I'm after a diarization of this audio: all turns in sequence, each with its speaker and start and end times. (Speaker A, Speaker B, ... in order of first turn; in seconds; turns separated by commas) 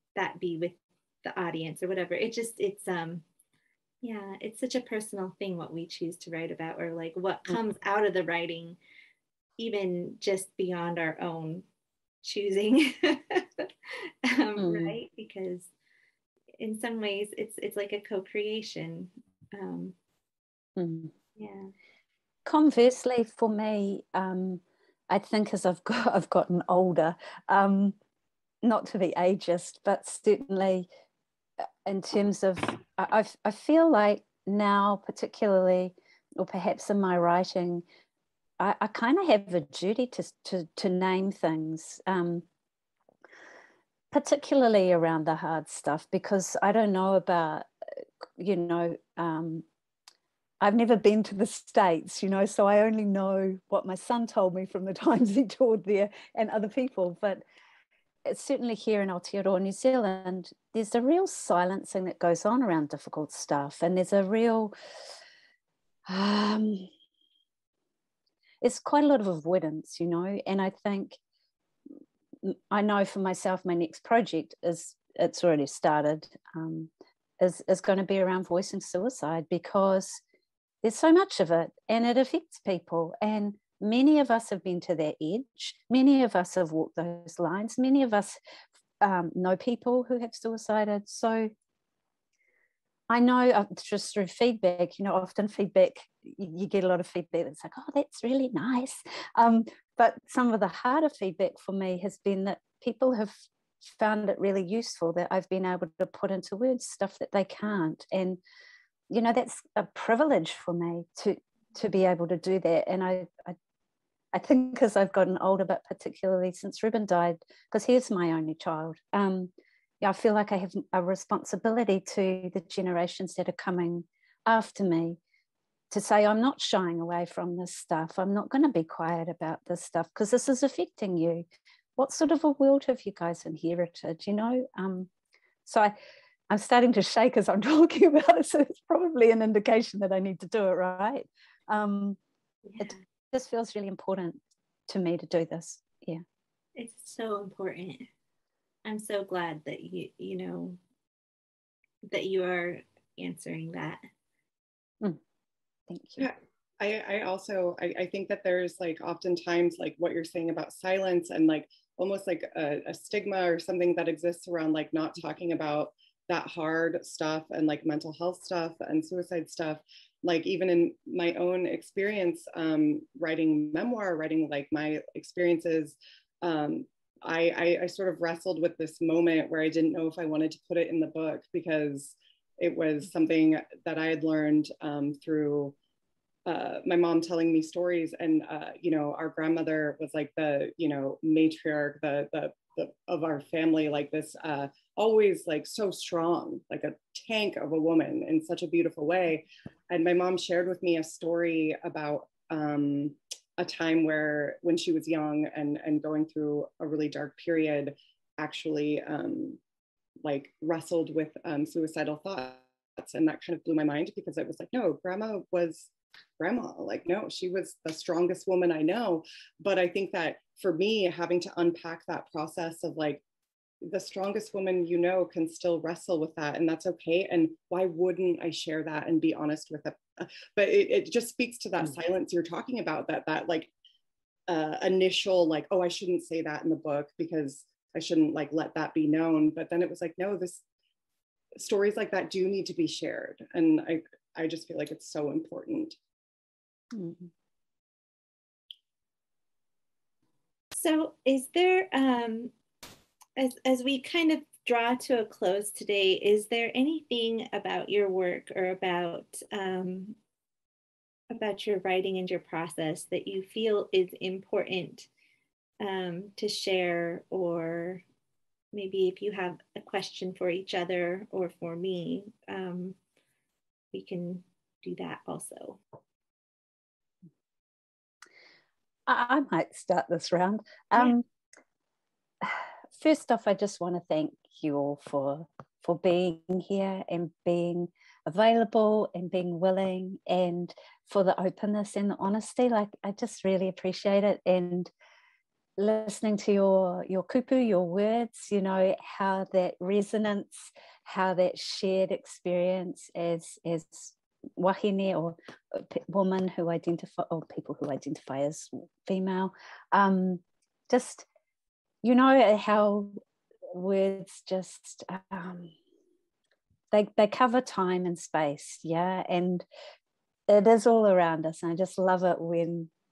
Speaker A: 0.1-3.2, Speaker A: 4.0-8.8, Speaker A: 9.6-11.6, Speaker A: 12.2-15.7, Speaker B: 14.6-14.9, Speaker A: 16.6-19.9, Speaker B: 20.8-21.1, Speaker A: 21.4-21.7, Speaker B: 22.4-27.9, Speaker B: 28.6-30.9, Speaker B: 31.6-37.8, Speaker B: 38.6-42.4, Speaker B: 44.1-47.7, Speaker B: 48.4-49.6, Speaker B: 50.6-57.4, Speaker B: 58.2-64.7, Speaker B: 66.0-66.9, Speaker B: 68.6-71.2, Speaker B: 72.4-80.2, Speaker B: 80.8-88.4, Speaker B: 89.0-91.5, Speaker B: 93.1-108.4, Speaker B: 109.1-113.6, Speaker B: 114.3-125.2, Speaker B: 125.9-131.4, Speaker B: 132.0-135.1, Speaker B: 135.6-135.9, Speaker B: 136.5-142.2, Speaker A: 142.7-143.0, Speaker B: 142.8-146.2, Speaker A: 146.8-148.1, Speaker A: 148.8-150.8, Speaker A: 152.1-154.0, Speaker B: 155.9-156.3, Speaker C: 156.2-185.8, Speaker C: 186.4-209.6, Speaker C: 210.2-223.2, Speaker C: 223.8-233.7, Speaker C: 234.5-240.6, Speaker C: 241.6-246.0, Speaker B: 246.9-247.3, Speaker A: 250.7-252.5, Speaker A: 253.4-260.1, Speaker A: 261.3-265.1, Speaker A: 265.8-268.0, Speaker A: 268.7-273.0, Speaker A: 273.9-275.8, Speaker B: 279.1-281.2, Speaker B: 282.4-294.9, Speaker B: 295.8-311.2, Speaker B: 312.0-313.2, Speaker B: 313.7-315.7, Speaker B: 316.9-319.6, Speaker B: 320.5-322.9